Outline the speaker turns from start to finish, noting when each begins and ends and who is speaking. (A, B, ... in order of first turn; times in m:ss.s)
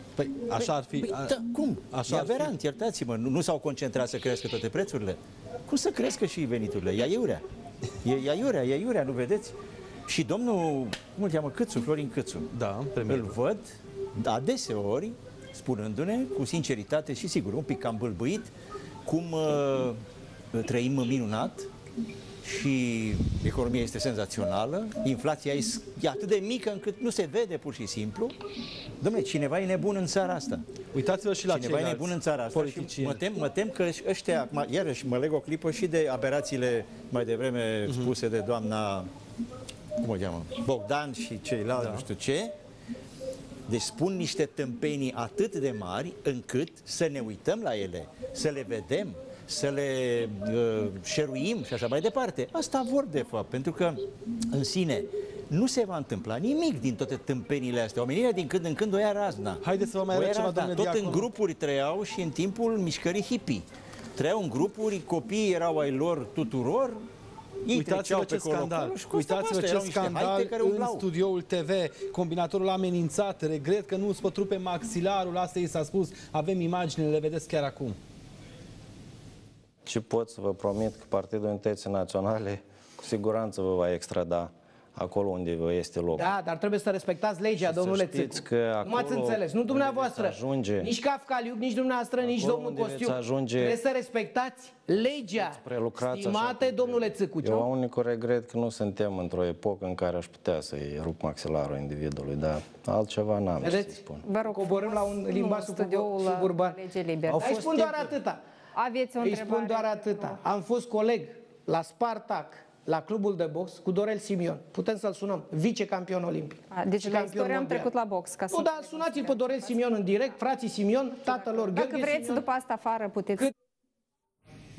0:00.2-0:02.5 A
0:00.6-0:07.4 B
0:08.0-0:09.6 B
0:10.1-0:12.5 B
0:12.5-0:13.4 A
0:13.1-0:18.5 B
0:19.0-0:20.0 B
0:20.5-0:21.7 B
0:22.4-0:28.3 B
0:29.0-0:30.6 B
0:30.9-0:33.2 A
0:31.5-0:39.1 B
0:37.9-0:38.1 A
0:40.0-0:42.5 B
0:41.8-0:42.0 A
0:43.7-1:07.0 B
0:59.6-1:01.3 A
1:07.6-1:11.0 B
1:07.7-1:18.0 A
1:19.8-1:26.3 C
1:26.2-1:37.6 D
1:27.6-1:30.9 C
1:32.2-1:33.8 C
1:35.5-1:44.2 C
1:43.6-1:48.4 D
1:44.2-1:48.0 E
1:48.8-1:50.4 E
1:49.2-1:57.9 D
1:56.7-2:00.3 E
1:58.5-2:02.5 D
2:01.2-2:03.5 E